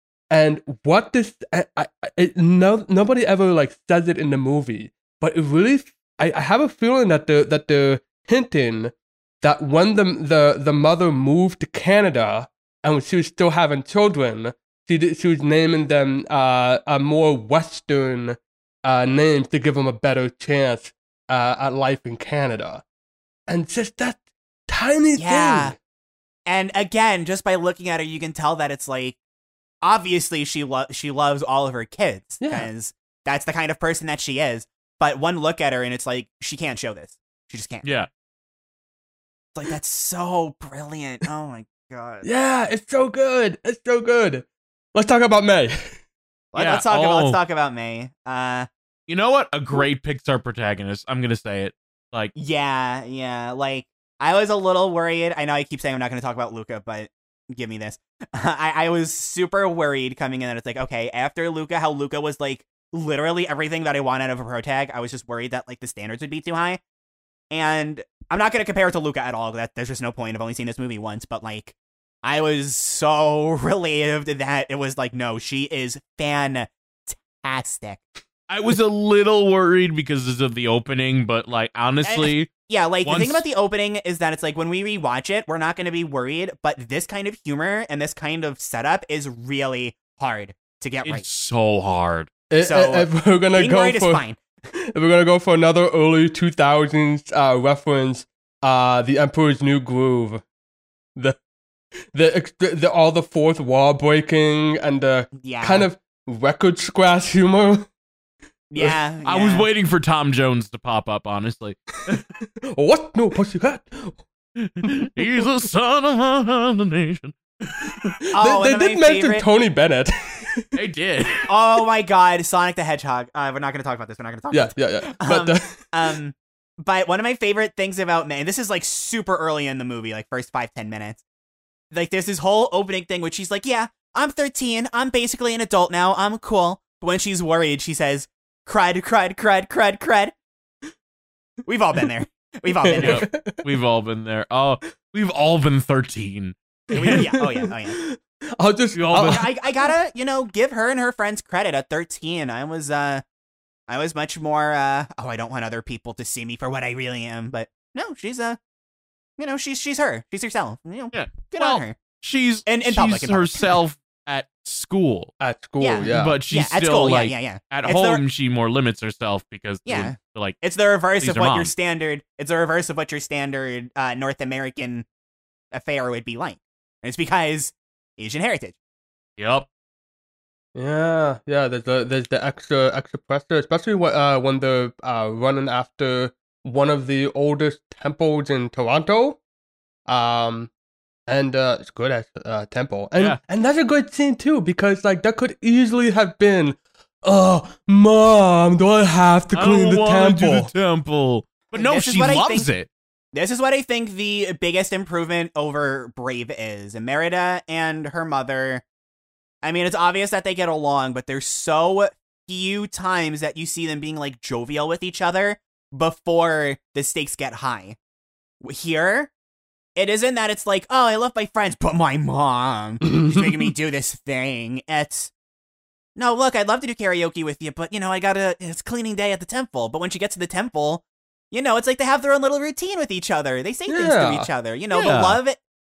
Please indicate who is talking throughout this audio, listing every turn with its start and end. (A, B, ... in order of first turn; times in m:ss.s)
0:00.3-0:22.8 A
0:23.5-0:25.8 A
0:25.2-0:25.8 B
0:26.5-0:29.2 B
0:29.8-0:37.8 B
0:32.4-0:32.7 A
0:37.8-0:38.1 C
0:39.5-0:42.3 B
0:42.2-0:46.0 A
0:46.5-0:48.7 B
0:46.6-0:47.4 C
0:49.1-0:52.3 C
0:52.4-1:06.8 B
1:07.5-1:18.0 B
1:18.5-1:22.5 C
1:22.0-1:31.2 B
1:23.0-1:23.4 C
1:31.0-1:32.3 C
1:32.5-1:34.2 A
1:32.6-1:34.4 B
1:34.9-1:40.4 A
1:42.1-1:47.9 A
1:45.4-1:45.9 B
1:48.7-1:49.7 B
1:49.2-1:52.2 C
1:52.7-1:54.3 A
1:54.6-1:58.2 C
1:54.8-1:55.1 A
1:58.3-1:59.5 B
1:58.4-2:00.7 A
2:00.7-2:01.5 C
2:01.5-2:11.2 B
2:04.5-2:05.9 A
2:11.9-2:20.3 B
2:21.7-2:23.3 B
2:22.8-2:23.6 A
2:23.0-2:27.3 C
2:26.9-2:28.0 B
2:26.9-2:29.5 A
2:28.9-2:29.5 C
2:29.3-2:33.2 B
2:33.9-2:38.6 B
2:39.4-2:42.0 B
2:41.1-2:45.3 C
2:42.7-2:43.8 B
2:45.4-2:46.4 A
2:45.8-2:48.2 B
2:46.0-2:50.6 C
2:49.9-2:55.1 B
2:51.2-2:51.7 C
2:55.7-2:58.8 B
2:59.4-2:59.7 C
3:00.8-3:09.4 A
3:10.1-3:10.7 A
3:11.3-3:20.7 A
3:19.5-3:22.9 C
3:21.7-3:22.7 B
3:23.3-3:28.8 B
3:29.6-3:38.0 B
3:38.6-3:39.3 B
3:40.0-3:45.3 B
3:46.2-3:55.6 B
3:53.9-3:54.5 A
3:54.9-3:55.4 C